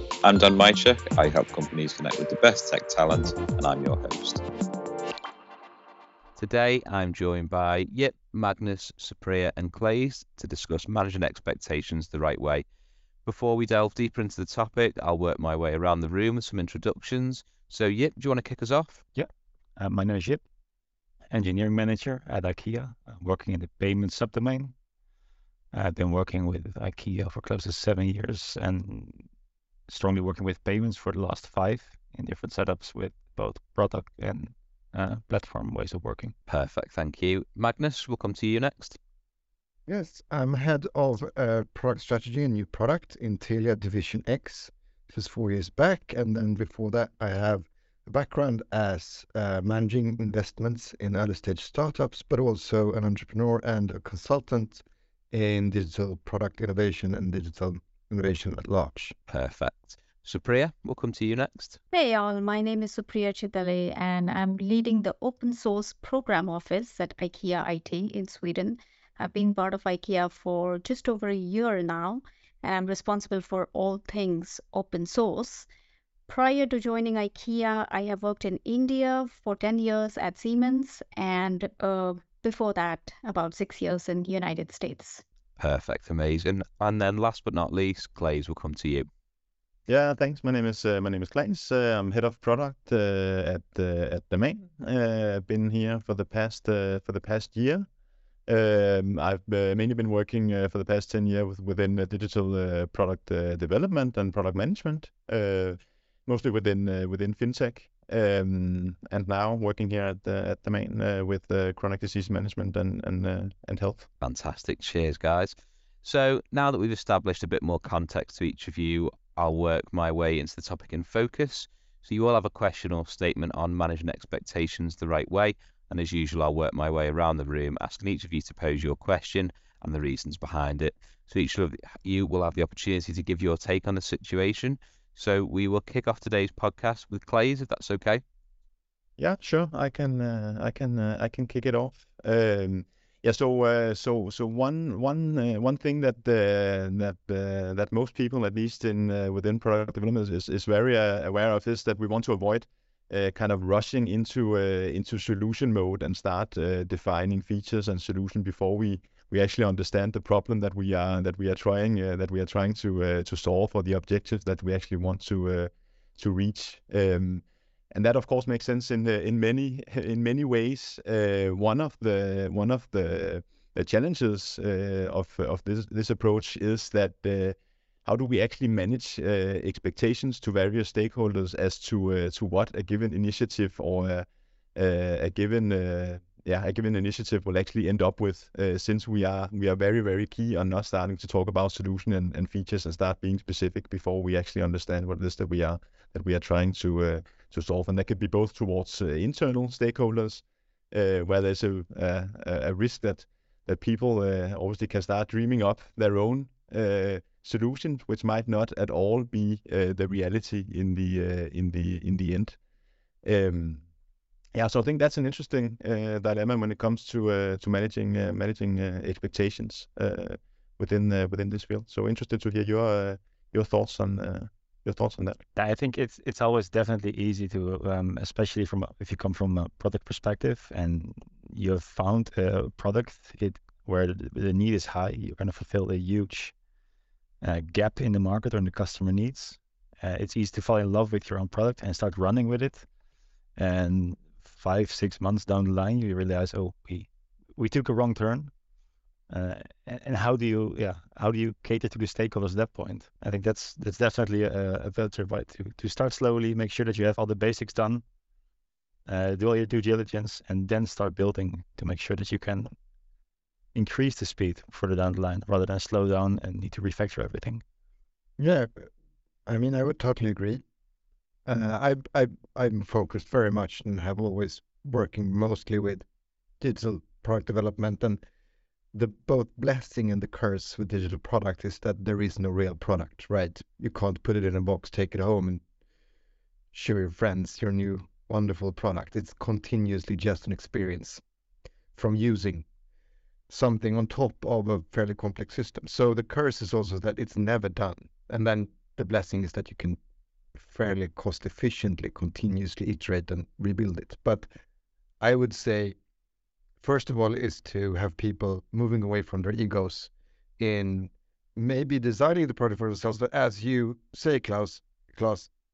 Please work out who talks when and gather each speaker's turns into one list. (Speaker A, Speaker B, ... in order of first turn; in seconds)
Speaker A: 0.2-4.4
Speaker B: 6.4-12.7, 13.3-19.0, 36.5-39.0, 59.3-61.8, 85.6-89.1, 114.2-138.2
Speaker C: 19.1-20.4, 21.3-24.7, 25.7-29.2, 29.9-36.3, 225.6-236.5, 237.4-242.9, 243.6-248.5, 249.3-258.0, 259.1-262.7, 263.8-267.6
Speaker D: 39.9-59.1, 268.4-268.9, 269.5-270.6, 271.5-276.1, 276.6-278.2, 278.9-285.6, 286.7-291.2, 291.9-292.6, 293.5-300.0, 300.6-304.5, 305.2-305.9, 306.8-315.5
Speaker E: 61.9-75.7, 76.3-85.2
Speaker F: 89.9-97.9, 98.5-114.1, 139.2-212.6, 213.2-213.8, 214.5-225.4